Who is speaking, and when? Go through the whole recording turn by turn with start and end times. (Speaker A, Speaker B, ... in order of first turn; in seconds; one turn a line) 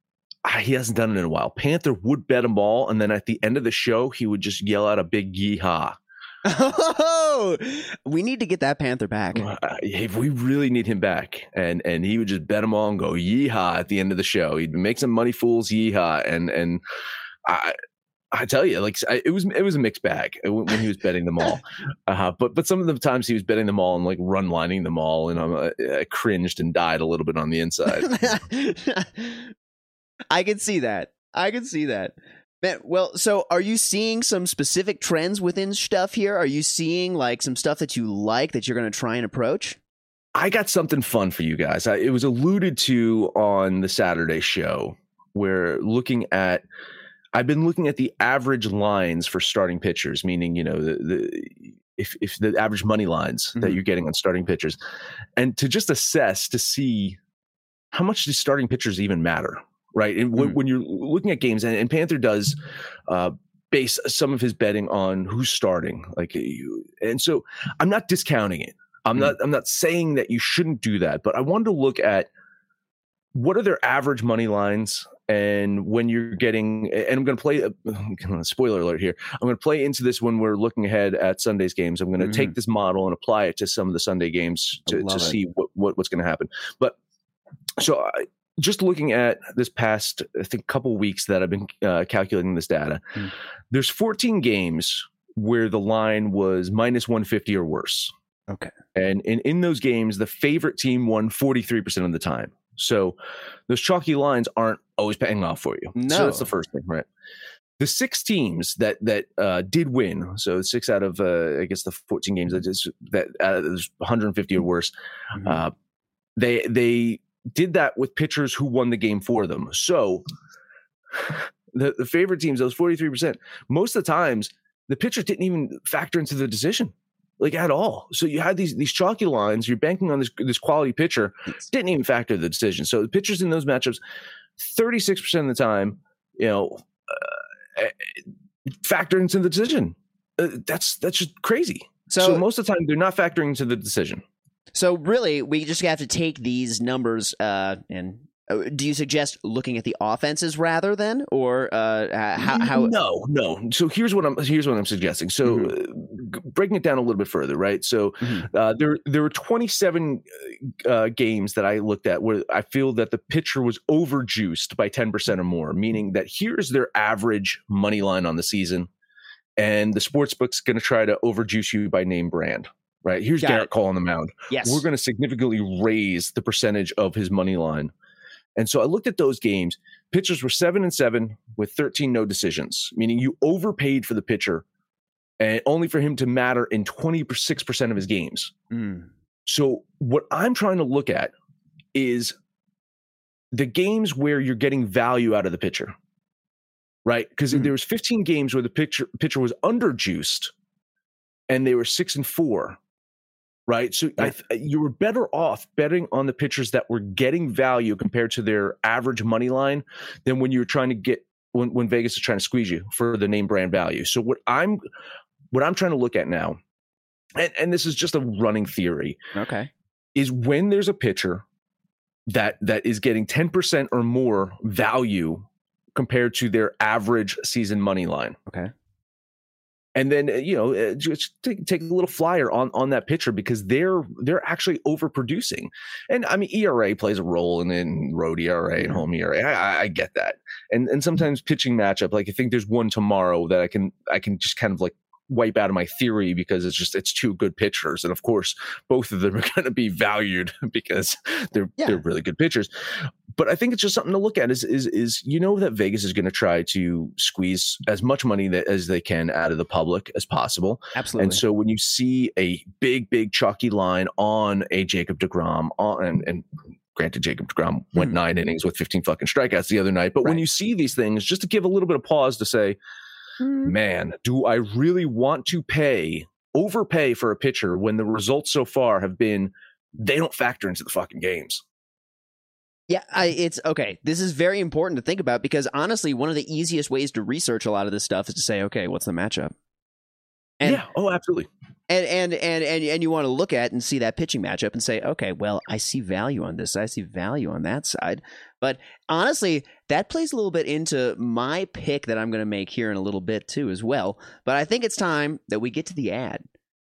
Speaker A: 0.4-6.0
Speaker B: 6.5-9.5
Speaker A: 9.3-16.8
Speaker A: 17.5-17.8
Speaker A: 18.3-28.1
Speaker B: 28.0-29.5
Speaker B: 30.3-39.8
Speaker A: 40.4-46.6
Speaker A: 47.3-54.8
Speaker A: 55.4-57.2
Speaker A: 57.9-72.3
Speaker A: 73.3-87.0
Speaker B: 82.2-82.5
Speaker B: 84.9-85.4
Speaker A: 87.8-93.2
Speaker A: 93.7-98.1
Speaker A: 99.0-107.1
Speaker B: 106.0-106.5
Speaker A: 107.8-115.7
Speaker B: 115.3-115.6
Speaker A: 116.4-120.2
Speaker A: 121.1-134.0
Speaker A: 134.6-138.1
Speaker A: 138.8-144.2
Speaker B: 142.1-142.4
Speaker B: 144.8-152.9
Speaker A: 152.4-168.9
Speaker B: 155.4-155.7
Speaker B: 158.2-158.5
Speaker A: 169.6-177.9
Speaker B: 173.4-173.7
Speaker B: 174.5-174.8
Speaker A: 178.6-184.7
Speaker A: 185.4-188.5
Speaker B: 188.7-189.1
Speaker A: 189.5-191.3
Speaker A: 191.9-192.4
Speaker A: 193.5-195.9
Speaker A: 197.1-200.5
Speaker A: 201.5-202.8
Speaker A: 203.7-214.8
Speaker A: 215.5-216.6
Speaker A: 217.4-219.2
Speaker B: 219.3-219.7
Speaker A: 220.2-221.4
Speaker A: 222.3-228.4
Speaker A: 229.9-272.8
Speaker B: 260.9-261.4
Speaker B: 273.4-273.7
Speaker A: 273.6-281.6
Speaker B: 282.9-289.5
Speaker A: 290.6-291.5
Speaker B: 291.9-306.4